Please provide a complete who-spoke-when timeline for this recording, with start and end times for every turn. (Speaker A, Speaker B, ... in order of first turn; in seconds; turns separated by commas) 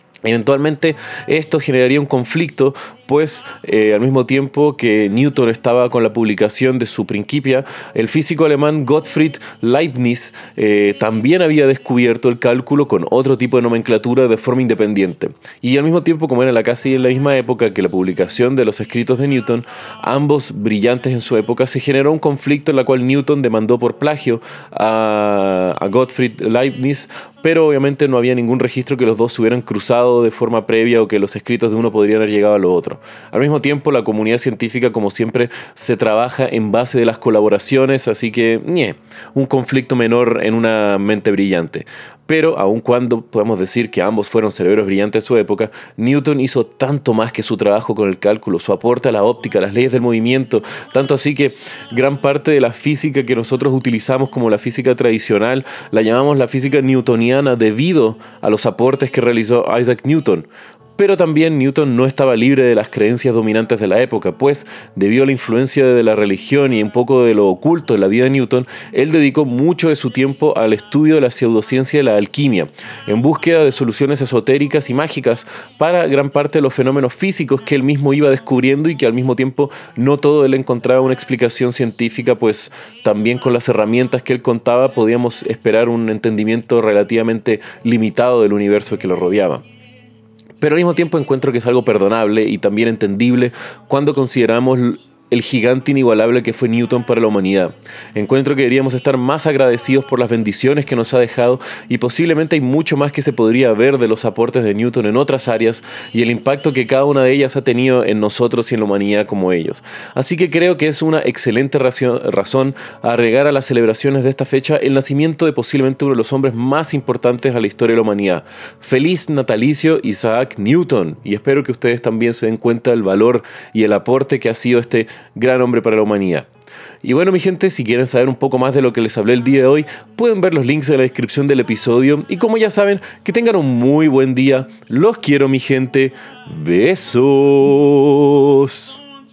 Speaker A: 0.2-89.7, Speaker A: 90.6-126.5, Speaker A: 127.0-139.0